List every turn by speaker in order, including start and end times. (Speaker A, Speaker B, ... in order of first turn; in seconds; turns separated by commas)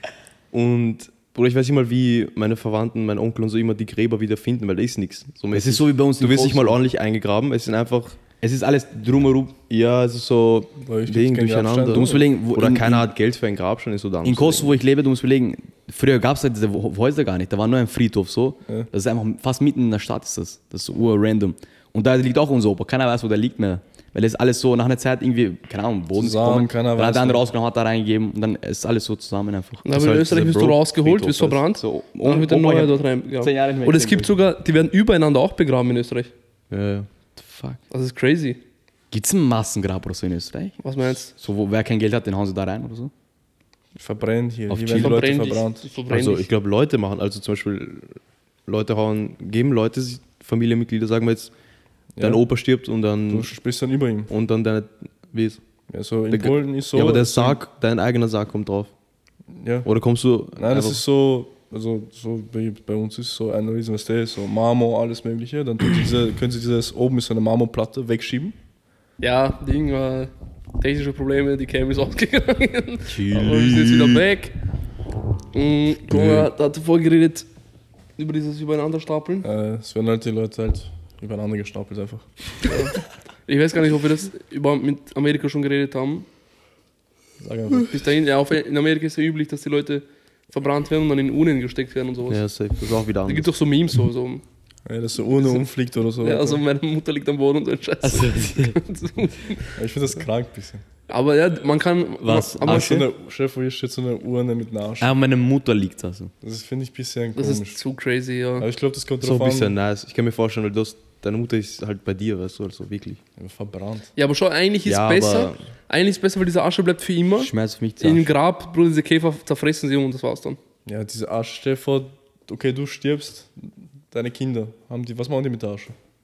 Speaker A: 0.5-8.2, Speaker B: 5.5-6.8, Speaker B: 8.4-9.6, Speaker A: 9.7-14.7, Speaker C: 10.8-12.2, Speaker B: 11.9-13.1, Speaker B: 14.2-29.8, Speaker C: 26.1-27.4, Speaker D: 29.8-36.3, Speaker A: 29.9-31.5, Speaker B: 31.2-34.3, Speaker A: 36.7-37.1, Speaker B: 37.4-37.8, Speaker D: 37.9-38.6, Speaker B: 39.1-40.8, Speaker D: 40.8-41.3, Speaker B: 41.3-43.1, Speaker C: 44.0-45.9, Speaker B: 44.7-45.2, Speaker D: 44.9-46.5, Speaker A: 46.1-48.1, Speaker A: 48.7-51.5, Speaker C: 52.1-52.4, Speaker A: 52.2-53.5, Speaker C: 53.3-54.3, Speaker A: 54.3-55.6, Speaker C: 55.9-57.5, Speaker A: 56.3-58.9, Speaker C: 59.5-59.9, Speaker A: 59.8-61.0, Speaker C: 60.6-68.5, Speaker D: 69.2-74.5, Speaker B: 73.1-74.2, Speaker D: 75.5-77.5, Speaker D: 78.2-79.5, Speaker C: 79.4-82.3, Speaker D: 82.6-86.2, Speaker C: 87.4-88.0, Speaker D: 87.9-92.4, Speaker A: 92.3-93.5, Speaker D: 93.2-94.4, Speaker C: 94.8-96.6, Speaker D: 96.2-99.8, Speaker B: 98.0-98.8, Speaker C: 99.8-100.8, Speaker D: 101.1-103.0, Speaker B: 102.2-103.1, Speaker C: 102.6-105.1, Speaker B: 105.0-106.3, Speaker C: 106.4-107.8, Speaker D: 107.3-108.7, Speaker C: 108.6-109.7, Speaker A: 109.2-113.2, Speaker C: 113.4-114.1, Speaker D: 114.2-120.6, Speaker A: 114.8-115.7, Speaker B: 117.3-118.3, Speaker C: 120.8-125.9